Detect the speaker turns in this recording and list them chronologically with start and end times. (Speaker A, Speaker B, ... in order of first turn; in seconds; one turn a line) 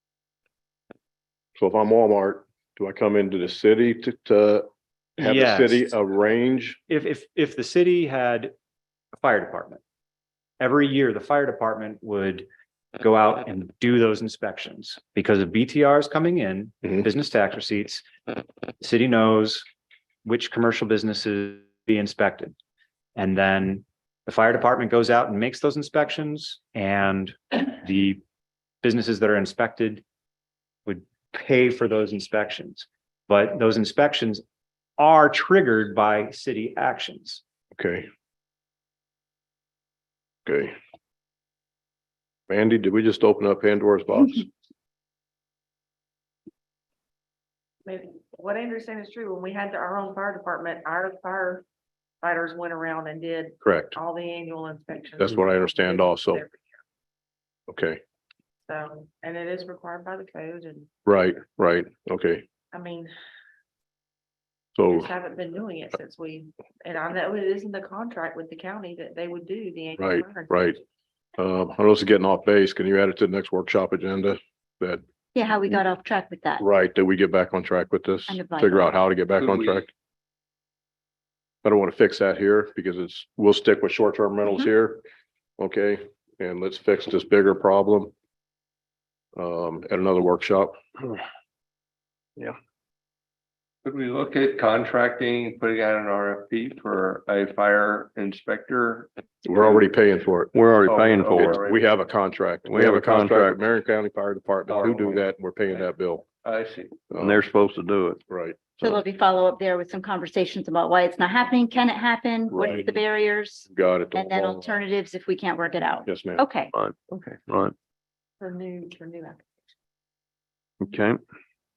Speaker A: 1.6-6.8
Speaker B: 5.2-5.9
Speaker B: 6.9-8.5
Speaker B: 9.1-9.8
Speaker B: 10.6-12.5
Speaker B: 13.0-18.1
Speaker B: 18.8-19.7
Speaker B: 20.2-22.6
Speaker B: 23.2-28.2
Speaker B: 28.8-30.0
Speaker B: 30.9-34.4
Speaker B: 35.0-37.4
Speaker A: 37.8-38.1
Speaker A: 40.5-40.7
Speaker A: 42.5-44.5
Speaker C: 47.8-51.6
Speaker C: 52.2-56.8
Speaker A: 53.6-54.0
Speaker A: 55.2-56.4
Speaker A: 57.7-58.0
Speaker C: 58.6-60.9
Speaker A: 61.1-62.5
Speaker C: 62.7-63.1
Speaker A: 64.8-65.1
Speaker C: 64.8-70.8
Speaker A: 70.0-70.8
Speaker A: 71.4-75.0
Speaker D: 75.3-76.6
Speaker A: 76.6-79.9
Speaker D: 78.3-78.9
Speaker E: 79.4-79.8
Speaker A: 81.6-85.0
Speaker A: 85.6-88.1
Speaker A: 89.3-91.0
Speaker E: 93.8-99.6
Speaker A: 99.5-100.5
Speaker F: 100.5-101.6
Speaker E: 100.8-101.8
Speaker A: 101.3-106.2
Speaker F: 102.7-103.6
Speaker E: 104.7-105.2
Speaker E: 106.4-107.1
Speaker A: 107.1-107.5
Speaker F: 107.2-108.2
Speaker A: 108.3-108.8
Speaker D: 108.8-116.7
Speaker A: 112.5-112.9
Speaker A: 113.7-114.7
Speaker A: 116.1-116.4
Speaker F: 116.7-117.7
Speaker C: 118.4-119.5
Speaker F: 120.8-121.2